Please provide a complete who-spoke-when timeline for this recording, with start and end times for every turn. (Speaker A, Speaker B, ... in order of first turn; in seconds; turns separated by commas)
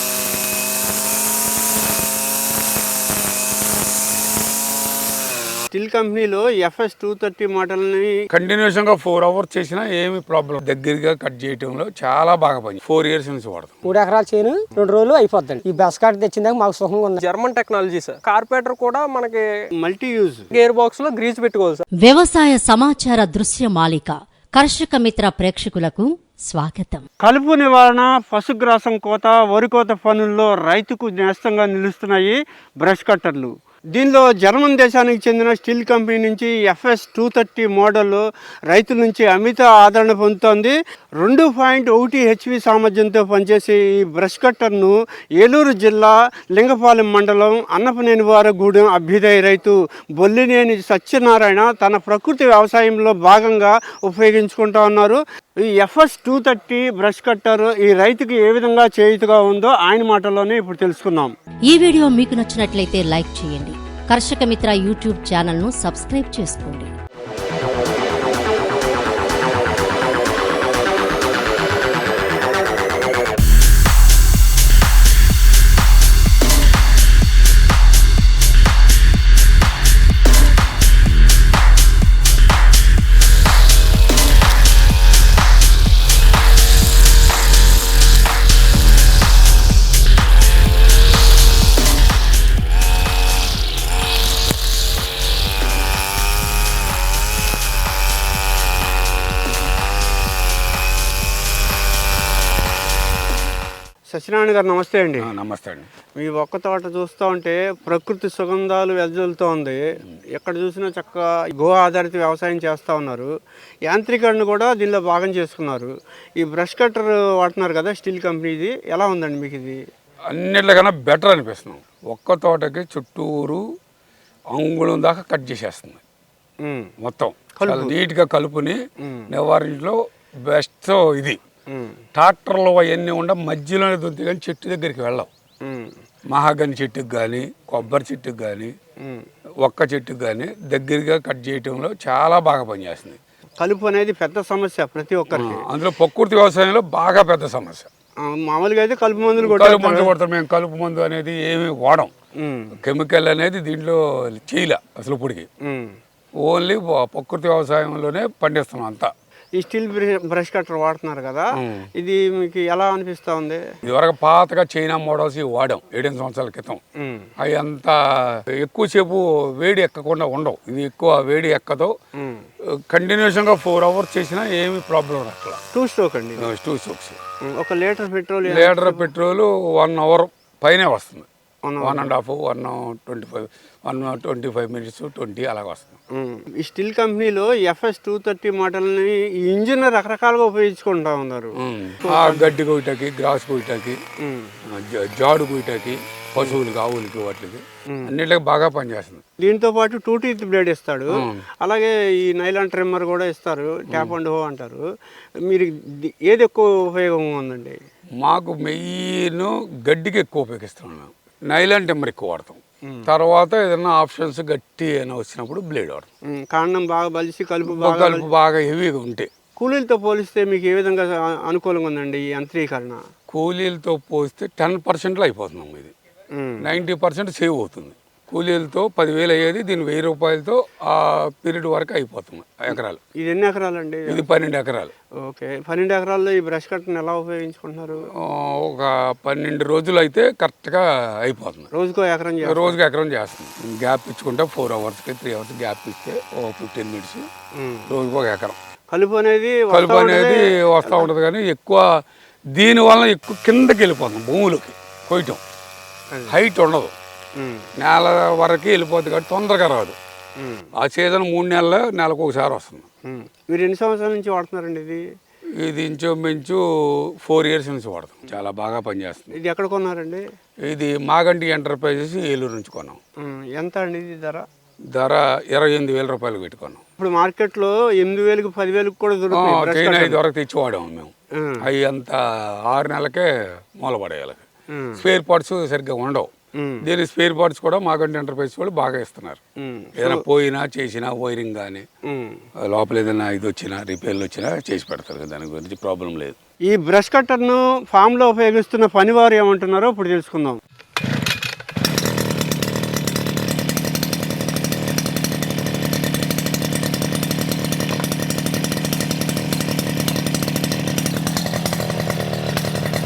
Speaker A: 5.7-8.2, Speaker B: 8.3-13.8, Speaker C: 13.8-17.2, Speaker D: 17.2-19.4, Speaker A: 19.8-20.5, Speaker D: 20.5-21.9, Speaker E: 22.0-27.1, Speaker A: 27.2-55.2, Speaker A: 55.7-61.3, Speaker E: 61.7-66.9, Speaker A: 104.1-105.3, Speaker B: 105.2-105.9, Speaker A: 106.2-109.8, Speaker A: 110.3-113.3, Speaker A: 113.9-119.8, Speaker B: 120.3-123.6, Speaker B: 124.5-126.0, Speaker A: 126.6-126.9, Speaker B: 127.0-128.8, Speaker A: 127.6-127.9, Speaker B: 129.3-130.0, Speaker B: 130.5-131.4, Speaker A: 131.7-132.0, Speaker B: 132.2-135.3, Speaker A: 135.6-135.9, Speaker B: 136.3-138.7, Speaker A: 139.0-139.3, Speaker B: 139.6-143.2, Speaker A: 143.6-145.6, Speaker B: 145.3-147.9, Speaker A: 148.2-150.1, Speaker B: 149.4-152.1, Speaker A: 152.4-152.7, Speaker B: 152.8-155.5, Speaker A: 155.6-155.9, Speaker B: 156.4-159.1, Speaker A: 159.6-163.6, Speaker B: 161.6-161.9, Speaker B: 163.8-166.8, Speaker A: 167.0-167.3, Speaker B: 167.4-171.9, Speaker A: 172.2-172.4, Speaker B: 172.9-175.6, Speaker A: 175.7-176.5, Speaker B: 176.4-177.2, Speaker A: 177.5-179.1, Speaker B: 178.5-181.3, Speaker A: 181.6-182.1, Speaker B: 181.8-186.0, Speaker A: 186.1-191.5, Speaker B: 191.6-194.0, Speaker A: 192.0-192.5, Speaker A: 194.2-194.5, Speaker B: 194.7-199.2, Speaker A: 199.4-204.8, Speaker B: 201.1-201.4, Speaker A: 205.5-207.8, Speaker B: 208.2-216.1, Speaker A: 216.3-218.3, Speaker B: 217.7-219.3, Speaker A: 219.6-223.0, Speaker B: 223.3-225.9, Speaker A: 226.3-226.7, Speaker B: 226.6-233.0, Speaker A: 233.2-234.2, Speaker B: 234.1-234.9, Speaker A: 235.2-238.0, Speaker B: 238.2-241.7, Speaker A: 241.7-242.8, Speaker B: 242.4-247.3, Speaker A: 247.6-247.8, Speaker B: 247.9-248.6, Speaker A: 248.9-251.1, Speaker B: 249.7-251.8, Speaker B: 252.6-255.4, Speaker B: 256.3-256.9, Speaker A: 257.4-257.7, Speaker B: 257.8-260.0, Speaker A: 260.4-260.7, Speaker B: 260.8-262.9, Speaker A: 263.1-265.0, Speaker B: 265.6-266.6, Speaker B: 267.2-269.3, Speaker A: 269.3-270.2, Speaker B: 270.7-273.0, Speaker A: 273.2-274.4, Speaker B: 274.9-276.8, Speaker A: 277.0-280.2, Speaker B: 279.3-281.1, Speaker B: 281.6-283.3, Speaker B: 283.8-284.4, Speaker A: 284.7-285.0, Speaker B: 285.0-286.3, Speaker A: 286.6-286.8, Speaker B: 286.8-289.4, Speaker A: 289.6-290.2, Speaker B: 290.0-291.9, Speaker A: 292.1-292.4, Speaker B: 292.7-296.4, Speaker A: 296.7-300.6